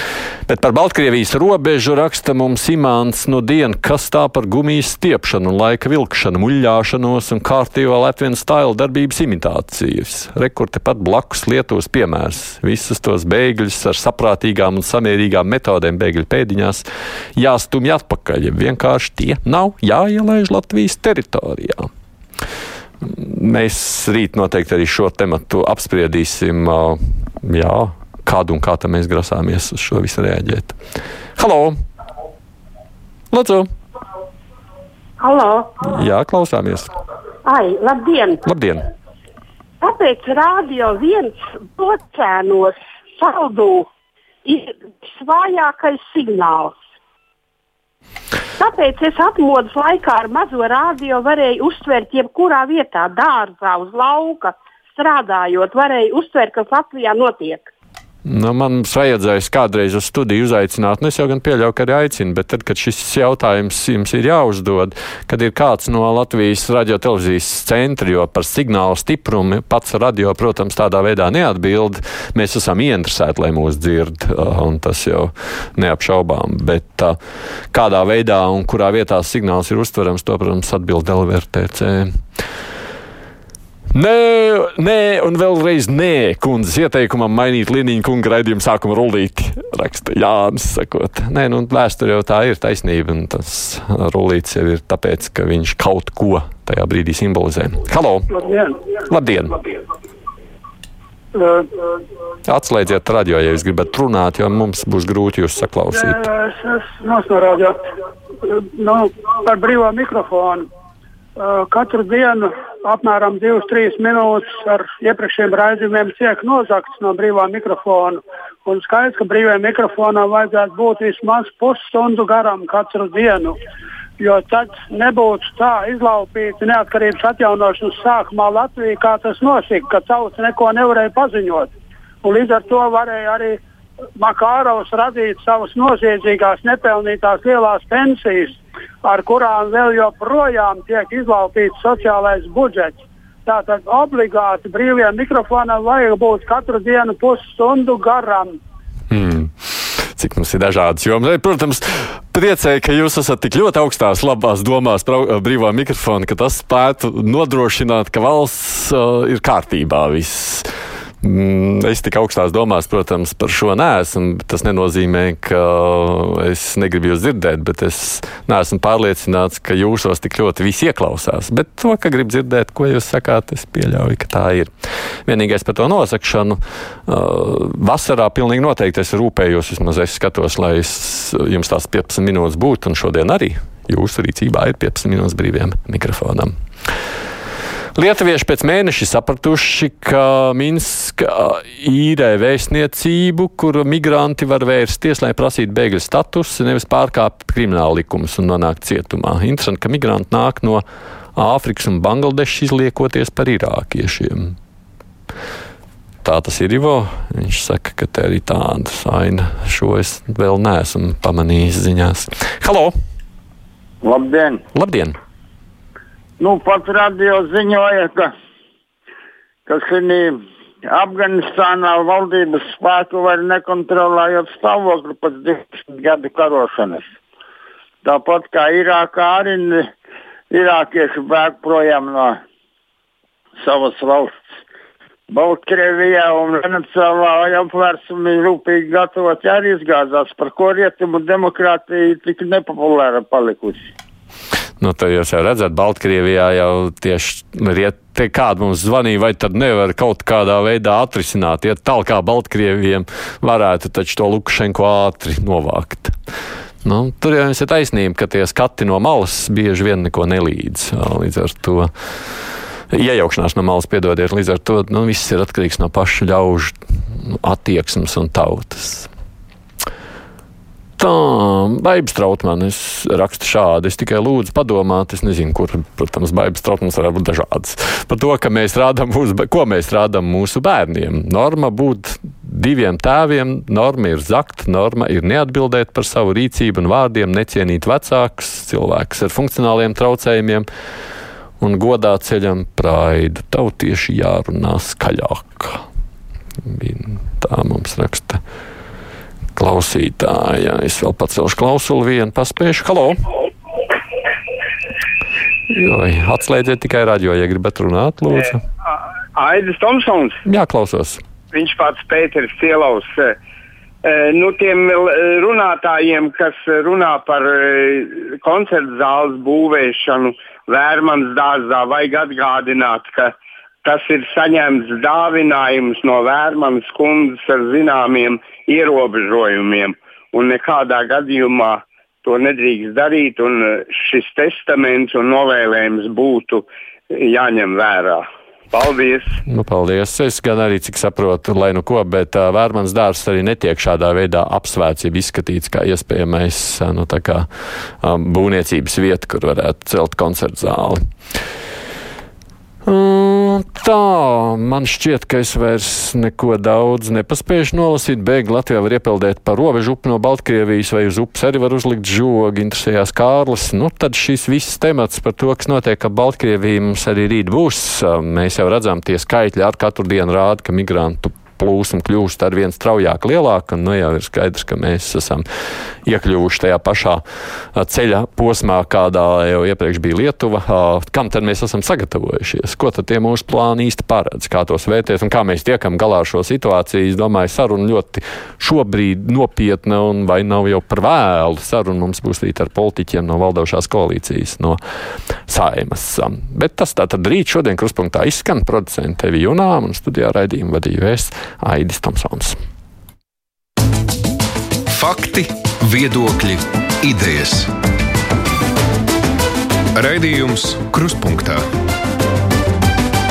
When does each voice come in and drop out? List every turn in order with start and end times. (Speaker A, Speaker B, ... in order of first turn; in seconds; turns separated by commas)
Speaker A: 0.5-21.9, Speaker A: 23.0-30.8, Speaker A: 31.4-31.8, Speaker A: 33.3-33.7, Speaker B: 35.2-35.7, Speaker A: 35.8-36.9, Speaker B: 37.4-38.4, Speaker A: 38.4-38.8, Speaker B: 39.8-43.9, Speaker B: 44.4-46.8, Speaker B: 48.6-57.7, Speaker A: 58.3-77.2, Speaker A: 77.7-82.1, Speaker A: 83.9-98.3, Speaker C: 98.3-98.8, Speaker A: 99.1-99.6, Speaker C: 101.3-101.6, Speaker A: 102.5-106.2, Speaker C: 105.9-107.8, Speaker C: 108.5-110.7, Speaker C: 111.4-123.6, Speaker C: 124.2-131.7, Speaker C: 132.2-133.6, Speaker C: 134.2-148.6, Speaker A: 149.1-160.7, Speaker A: 161.2-174.7, Speaker A: 175.3-186.5, Speaker A: 188.0-200.8, Speaker A: 201.4-204.6, Speaker A: 206.2-212.9, Speaker D: 214.0-214.6, Speaker A: 214.8-215.2, Speaker D: 216.4-218.3, Speaker D: 219.7-227.1, Speaker D: 228.0-229.9, Speaker D: 230.5-232.4, Speaker D: 233.6-234.4, Speaker D: 235.3-243.9, Speaker A: 244.8-256.1, Speaker A: 256.8-261.9, Speaker A: 262.9-269.1, Speaker A: 271.0-290.7, Speaker A: 291.6-295.8, Speaker A: 296.7-298.4, Speaker A: 299.6-303.2, Speaker A: 305.7-308.6, Speaker E: 309.4-310.4, Speaker A: 310.4-311.2, Speaker E: 311.5-313.4, Speaker E: 314.0-323.3, Speaker E: 323.8-339.2, Speaker A: 339.5-347.5, Speaker A: 348.0-351.0, Speaker A: 352.9-375.4, Speaker A: 376.1-377.2, Speaker A: 377.8-394.8, Speaker A: 395.5-402.6, Speaker F: 405.0-405.5, Speaker F: 406.1-407.7, Speaker F: 410.0-411.6